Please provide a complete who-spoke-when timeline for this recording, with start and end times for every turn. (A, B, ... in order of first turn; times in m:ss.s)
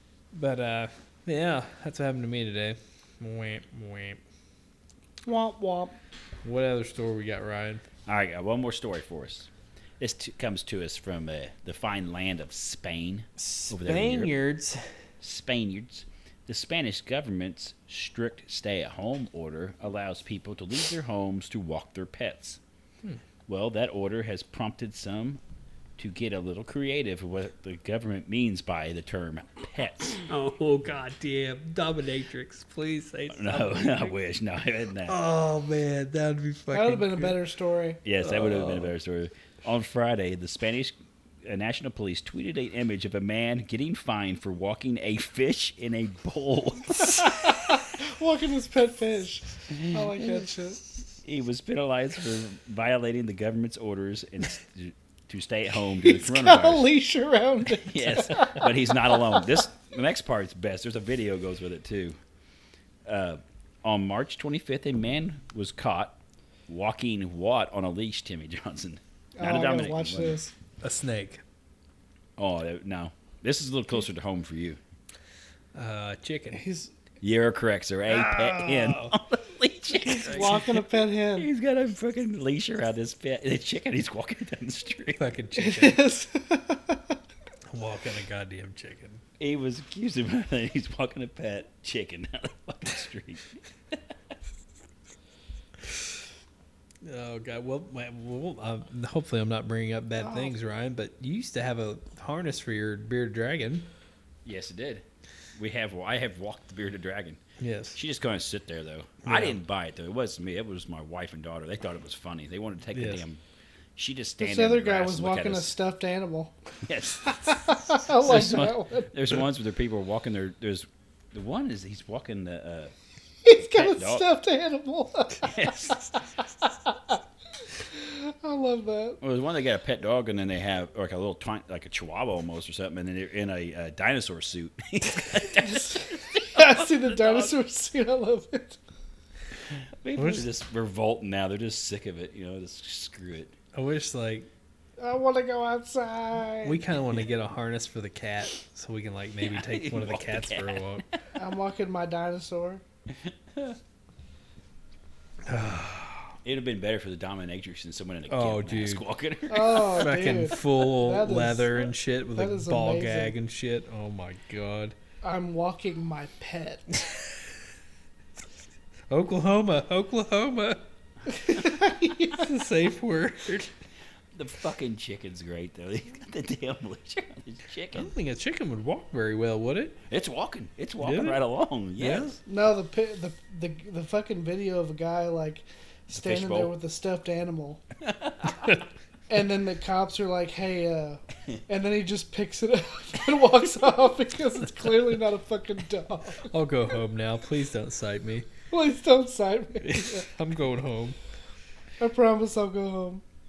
0:00.3-0:04.2 A
0:05.2-0:06.0 B
0:06.4-0:07.8 A
0:08.1-0:14.3 C
0:13.4-0:14.9 A
0:15.2-0:22.6 C
0:23.5-0:25.4 C
0:26.0-0:30.3 C
0:30.3-0:34.2 A
0:33.3-0:35.2 C
0:35.1-0:37.4 A
0:36.7-0:38.0 B
0:38.0-0:47.5 C
0:47.1-0:50.8 B
0:49.7-0:50.4 C
0:51.2-0:56.9 C
0:56.0-0:59.4 B
0:57.7-1:02.2 C
1:03.0-1:10.4 C
1:09.4-1:10.5 B
1:10.8-1:11.4 A
1:12.4-1:14.8 C
1:15.7-1:16.6 A
1:16.5-1:16.9 B
1:17.2-1:25.3 C
1:18.1-1:19.1 A
1:20.0-1:21.5 B
1:20.0-1:20.6 A
1:25.2-1:26.1 A
1:25.6-1:27.2 B
1:27.7-1:29.2 A
1:29.4-1:34.0 C
1:37.0-1:43.9 A
1:40.2-1:40.5 B
1:44.4-1:47.4 C
1:47.6-1:48.0 A
1:47.9-1:53.4 C
1:49.2-1:49.6 A
1:52.9-1:53.2 A
1:54.0-1:55.7 C
1:54.4-1:56.5 B
1:56.8-2:02.9 C
1:57.2-1:59.1 B
2:03.4-2:06.1 B
2:03.6-2:04.2 C
2:05.4-2:06.1 C
2:07.9-2:09.2 B
2:09.2-2:17.5 C
2:15.6-2:18.8 B
2:19.7-2:23.5 C
2:20.2-2:20.4 A
2:23.7-2:24.5 A
2:25.0-2:26.8 B
2:26.6-2:31.0 A
2:29.4-2:31.0 C
2:31.4-2:32.8 B
2:33.1-2:33.8 C
2:35.4-2:36.4 A
2:36.4-2:40.1 C
2:38.3-2:39.0 A
2:39.5-2:43.3 B
2:39.6-2:45.0 A
2:45.2-2:47.0 B
2:49.1-2:50.8 A
2:51.3-2:52.5 B
2:52.3-2:53.7 A
2:54.3-2:58.1 C
2:57.9-3:00.0 A
3:00.1-3:02.4 C
3:01.0-3:01.4 A
3:02.0-3:02.4 A
3:02.4-3:07.8 B
3:06.1-3:06.7 C
3:08.0-3:08.7 C
3:09.3-3:16.5 B
3:16.4-3:18.5 A
3:18.7-3:20.3 B
3:19.8-3:21.2 A
3:22.0-3:23.2 B